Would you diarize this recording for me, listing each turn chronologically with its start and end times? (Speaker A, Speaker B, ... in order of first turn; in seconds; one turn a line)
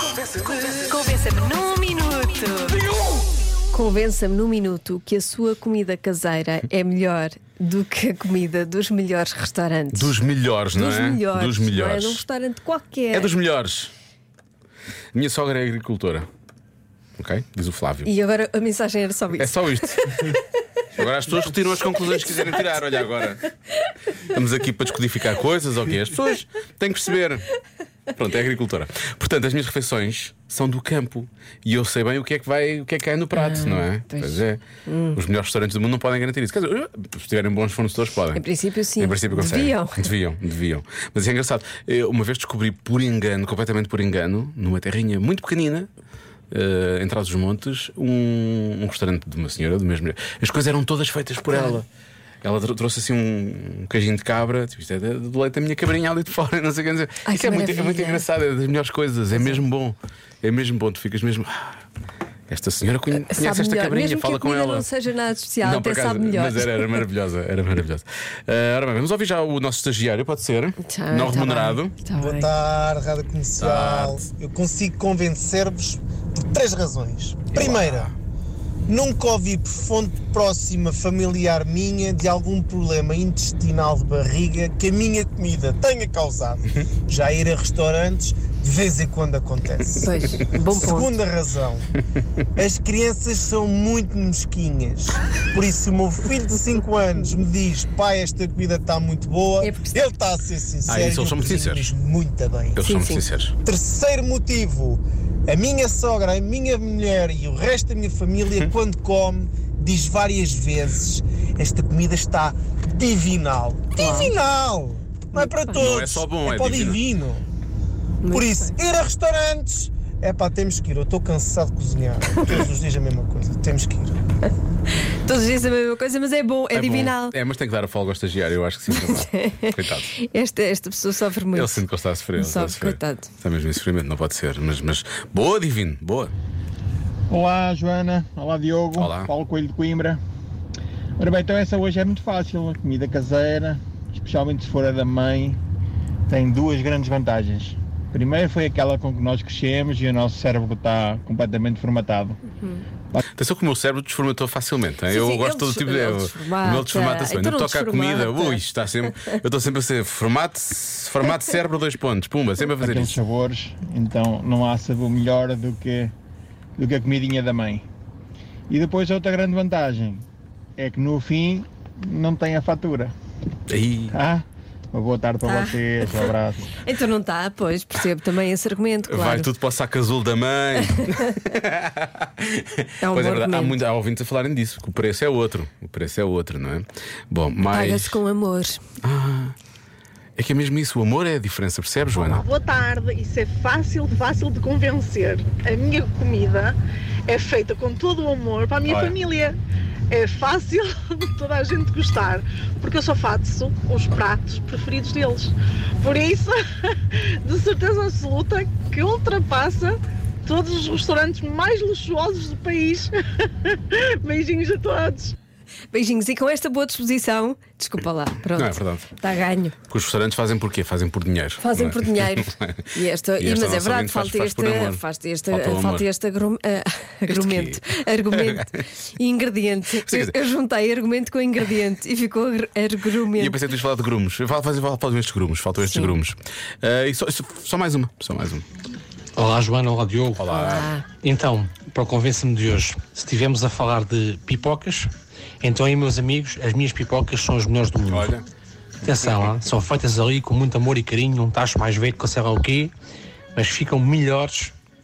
Speaker A: 0.1-2.8
Speaker A: 3.7-10.2
Speaker B: 9.9-12.2
Speaker A: 10.7-13.3
Speaker B: 13.1-13.9
Speaker B: 15.1-16.3
Speaker B: 17.2-18.1
Speaker A: 18.1-20.2
Speaker B: 19.4-20.3
Speaker B: 20.9-23.5
Speaker B: 24.2-27.5
Speaker B: 28.1-34.6
Speaker A: 33.3-35.2
Speaker B: 35.1-38.4
Speaker A: 38.3-40.0
Speaker B: 39.0-45.9
Speaker B: 46.5-51.9
Speaker A: 51.5-51.8
Speaker B: 52.4-61.8
Speaker A: 57.3-58.2
Speaker B: 62.5-64.9
Speaker A: 63.3-67.0
Speaker B: 65.6-71.9
Speaker A: 70.8-72.5
Speaker C: 72.2-78.2
Speaker B: 73.6-74.2
Speaker B: 77.5-78.2
Speaker C: 78.9-90.1
Speaker A: 89.9-91.1
Speaker C: 90.7-91.9
Speaker C: 92.6-102.8
Speaker A: 99.6-100.0
Speaker B: 100.9-101.9
Speaker B: 102.8-103.5
Speaker A: 102.8-103.2
Speaker C: 103.6-117.5
Speaker A: 114.0-114.3
Speaker A: 115.4-115.8
Speaker B: 115.8-117.0
Speaker A: 118.2-118.7
Speaker C: 118.3-124.2
Speaker A: 122.4-122.7
Speaker A: 125.1-127.3
Speaker B: 126.7-130.1
Speaker A: 128.9-131.8
Speaker B: 131.5-136.3
Speaker A: 132.4-133.3
Speaker D: 137.3-140.2
Speaker B: 139.0-139.3
Speaker D: 141.2-145.6
Speaker D: 146.3-152.4
Speaker B: 153.4-163.2
Speaker A: 155.1-159.4
Speaker D: 162.8-166.1
Speaker D: 166.8-167.8
Speaker D: 168.7-170.2
Speaker D: 170.8-173.1
Speaker B: 173.7-174.2
Speaker D: 174.1-176.8
Speaker A: 175.4-179.5
Speaker B: 179.1-188.2
Speaker A: 181.0-181.3
Speaker A: 183.0-183.8
Speaker A: 187.7-188.8
Speaker B: 189.0-189.6
Speaker B: 190.4-192.4
Speaker E: 192.2-196.8
Speaker E: 197.3-199.6
Speaker B: 198.9-199.2
Speaker E: 200.1-215.3
Speaker A: 215.9-219.8
Speaker B: 218.6-219.1
Speaker B: 219.9-226.1
Speaker A: 221.6-233.6
Speaker B: 227.3-228.8
Speaker B: 230.0-230.4
Speaker B: 233.3-238.7
Speaker A: 235.8-236.2
Speaker F: 239.4-240.5
Speaker B: 240.4-240.9
Speaker A: 240.5-241.1
Speaker F: 241.2-245.1
Speaker F: 245.6-248.3
Speaker B: 248.1-248.4
Speaker F: 249.1-252.9
Speaker F: 253.6-254.8